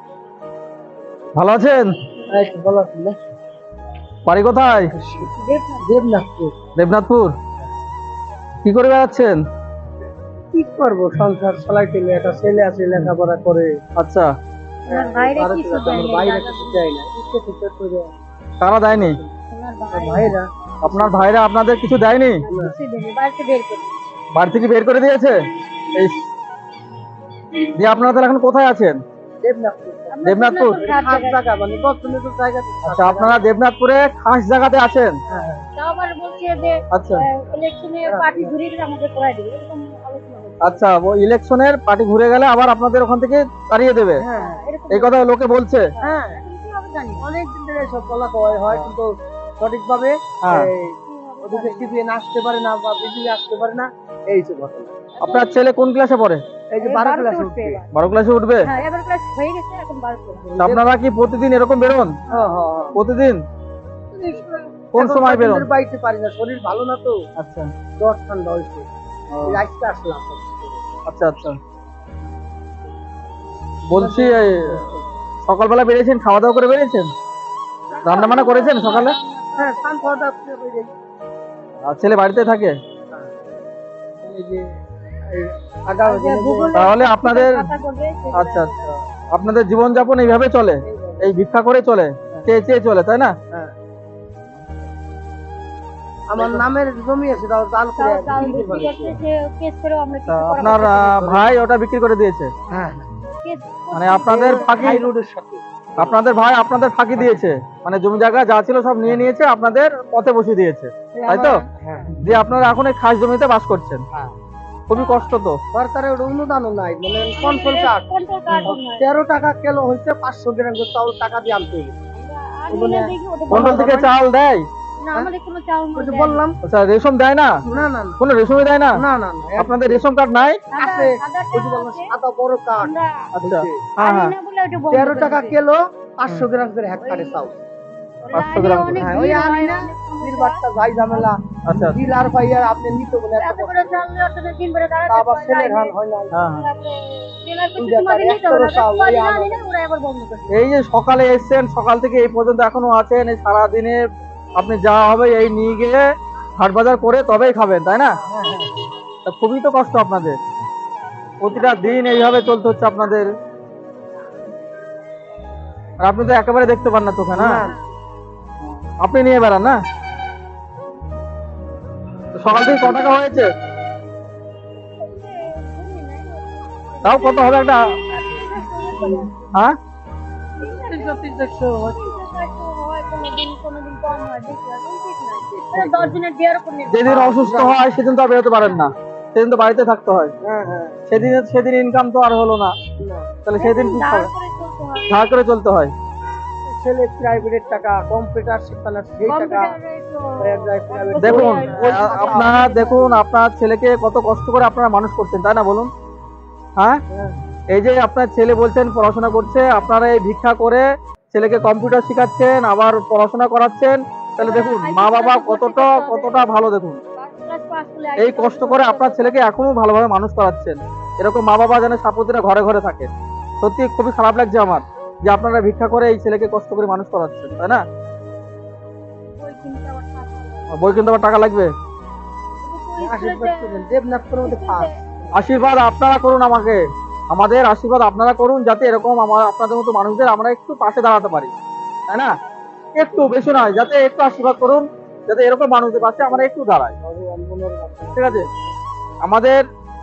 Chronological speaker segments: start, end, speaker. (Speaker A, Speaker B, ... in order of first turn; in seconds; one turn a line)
Speaker A: 1.4-2.0
Speaker B: 2.3-3.2
Speaker A: 4.3-4.9
Speaker B: 4.9-5.3
Speaker C: 5.4-6.1
Speaker B: 5.8-6.5
Speaker A: 6.8-7.3
Speaker A: 8.6-9.4
Speaker B: 10.5-13.7
Speaker A: 14.0-14.3
Speaker C: 14.9-16.9
Speaker B: 14.9-18.1
Speaker A: 18.6-19.2
Speaker B: 18.9-19.3
Speaker C: 19.5-20.4
Speaker B: 19.9-21.3
Speaker A: 20.8-22.4
Speaker C: 22.4-23.9
Speaker A: 24.4-25.4
Speaker A: 25.9-26.2
Speaker A: 27.8-29.0
Speaker B: 29.4-30.2
Speaker C: 30.1-31.9
Speaker A: 30.3-30.8
Speaker B: 30.8-33.5
Speaker A: 32.9-35.1
Speaker B: 35.3-35.7
Speaker C: 35.3-40.9
Speaker A: 36.9-37.2
Speaker B: 38.1-38.5
Speaker A: 40.6-44.2
Speaker B: 44.2-44.6
Speaker C: 44.3-47.2
Speaker A: 44.9-45.9
Speaker B: 46.0-46.4
Speaker B: 47.2-49.1
Speaker B: 49.6-54.9
Speaker A: 50.4-50.7
Speaker C: 51.1-52.0
Speaker C: 55.2-55.6
Speaker A: 55.2-56.4
Speaker B: 56.7-57.8
Speaker C: 56.8-57.9
Speaker A: 57.9-58.7
Speaker C: 58.6-60.5
Speaker B: 60.4-60.9
Speaker A: 60.6-62.1
Speaker B: 62.3-63.0
Speaker A: 63.0-63.4
Speaker B: 64.1-67.2
Speaker A: 64.9-65.7
Speaker A: 67.4-67.7
Speaker B: 68.0-68.8
Speaker A: 69.3-69.6
Speaker B: 69.5-70.8
Speaker A: 71.1-71.6
Speaker A: 73.9-74.9
Speaker B: 73.9-74.9
Speaker A: 75.5-77.1
Speaker B: 77.9-78.7
Speaker C: 78.0-80.2
Speaker A: 78.0-79.2
Speaker B: 79.6-80.9
Speaker A: 81.9-82.8
Speaker B: 84.2-84.7
Speaker B: 85.3-86.7
Speaker C: 86.0-88.9
Speaker A: 86.8-87.7
Speaker A: 88.3-88.7
Speaker A: 89.3-93.3
Speaker B: 90.8-91.3
Speaker B: 96.3-99.2
Speaker C: 98.0-101.2
Speaker A: 100.3-102.5
Speaker B: 100.7-101.5
Speaker C: 102.7-105.1
Speaker B: 102.7-103.1
Speaker A: 103.9-105.0
Speaker B: 104.4-106.2
Speaker A: 106.0-111.6
Speaker B: 111.2-112.2
Speaker A: 112.2-114.0
Speaker A: 114.9-115.6
Speaker C: 114.9-115.2
Speaker B: 115.7-122.0
Speaker C: 117.3-119.0
Speaker C: 122.1-124.1
Speaker B: 122.7-124.0
Speaker A: 123.5-124.7
Speaker C: 125.0-126.4
Speaker B: 126.0-126.6
Speaker A: 126.6-127.6
Speaker B: 127.7-128.2
Speaker A: 128.2-129.0
Speaker B: 128.9-130.0
Speaker A: 129.6-130.6
Speaker C: 130.7-132.1
Speaker B: 130.8-133.9
Speaker C: 132.8-133.3
Speaker A: 133.3-134.3
Speaker C: 134.0-135.6
Speaker B: 134.9-137.6
Speaker C: 136.9-137.5
Speaker C: 138.2-141.3
Speaker A: 138.3-139.1
Speaker B: 139.0-144.1
Speaker A: 141.7-142.0
Speaker C: 143.4-145.9
Speaker B: 145.1-146.5
Speaker A: 146.3-146.7
Speaker C: 146.6-150.6
Speaker B: 147.8-149.6
Speaker A: 150.5-154.0
Speaker A: 154.6-156.0
Speaker A: 156.6-158.2
Speaker B: 158.3-158.7
Speaker A: 159.2-160.4
Speaker A: 161.4-163.3
Speaker A: 166.0-167.7
Speaker B: 167.3-167.8
Speaker A: 169.0-169.8
Speaker A: 172.3-173.5
Speaker C: 175.0-179.6
Speaker A: 177.0-177.9
Speaker C: 180.6-187.2
Speaker B: 180.6-182.2
Speaker B: 185.6-186.2
Speaker A: 186.9-190.3
Speaker B: 187.0-187.8
Speaker B: 190.4-191.0
Speaker A: 191.1-192.8
Speaker B: 193.0-193.3
Speaker A: 193.4-194.3
Speaker C: 193.6-195.4
Speaker A: 195.1-195.9
Speaker B: 196.7-199.7
Speaker C: 199.3-203.2
Speaker B: 200.4-202.6
Speaker A: 201.2-205.9
Speaker B: 207.1-207.4
Speaker A: 207.7-217.0
Speaker C: 214.4-216.5
Speaker C: 217.2-219.4
Speaker A: 218.2-227.8
Speaker C: 229.3-231.1
Speaker A: 230.7-231.7
Speaker C: 232.6-234.9
Speaker B: 233.0-234.9
Speaker A: 235.3-241.5
Speaker A: 242.9-246.9
Speaker B: 243.1-243.4
Speaker B: 246.0-248.7
Speaker A: 248.2-248.5
Speaker A: 249.2-249.6